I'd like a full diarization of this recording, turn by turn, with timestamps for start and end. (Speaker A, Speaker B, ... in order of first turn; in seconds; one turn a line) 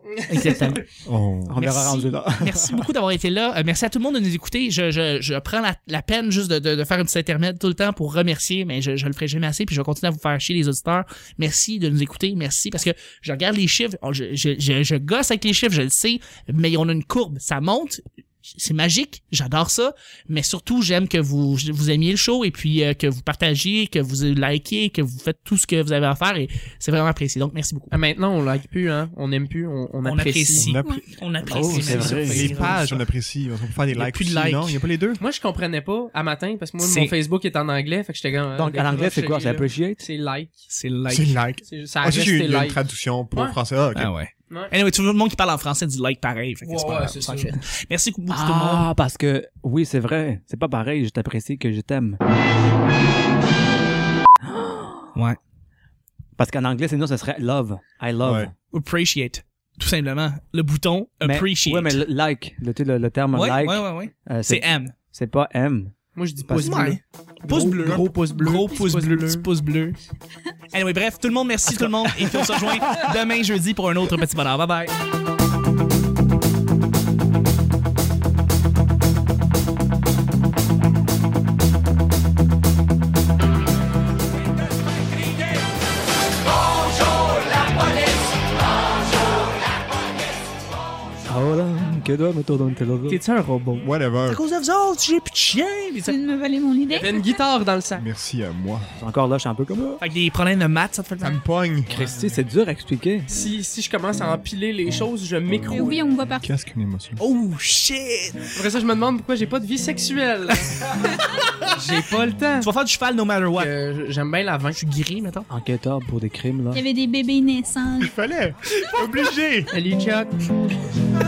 Speaker A: 0.1-0.8
Speaker B: 0.3-0.9
Speaker C: 1.1-1.6
Speaker D: 1.5-2.8
Speaker B: 1.6-28.0
Speaker A: 27.9-30.8
Speaker B: 30.0-33.0
Speaker C: 30.5-31.1
Speaker A: 31.4-32.8
Speaker D: 31.5-32.5
Speaker C: 32.2-35.2
Speaker B: 34.0-34.8
Speaker A: 35.2-40.7
Speaker B: 36.8-37.1
Speaker D: 38.6-40.0
Speaker B: 40.7-41.3
Speaker C: 41.1-44.1
Speaker A: 41.6-42.8
Speaker A: 43.3-43.6
Speaker B: 44.0-48.9
Speaker A: 46.6-47.6
Speaker D: 48.3-52.2
Speaker D: 54.4-55.1
Speaker D: 56.4-58.5
Speaker C: 58.2-58.5
Speaker B: 58.7-62.0
Speaker D: 61.2-65.9
Speaker B: 63.3-64.9
Speaker A: 66.2-69.5
Speaker B: 66.5-70.0
Speaker B: 70.7-74.9
Speaker D: 72.2-73.0
Speaker D: 91.3-93.2
Speaker B: 93.1-96.2
Speaker C: 93.8-94.4
Speaker E: 96.1-97.3
Speaker A: 96.9-98.0
Speaker C: 98.0-98.9
Speaker D: 99.0-100.0
Speaker B: 100.0-101.4
Speaker C: 101.2-102.1
Speaker D: 102.0-103.3
Speaker A: 103.3-106.0
Speaker E: 105.7-106.5
Speaker C: 106.4-107.2
Speaker B: 107.2-108.4
Speaker A: 108.6-110.9
Speaker A: 111.7-112.7
Speaker B: 112.6-113.7
Speaker A: 113.6-114.8
Speaker B: 114.8-115.5
Speaker D: 115.5-116.8
Speaker E: 116.7-118.1
Speaker C: 118.0-119.7
Speaker A: 119.7-120.5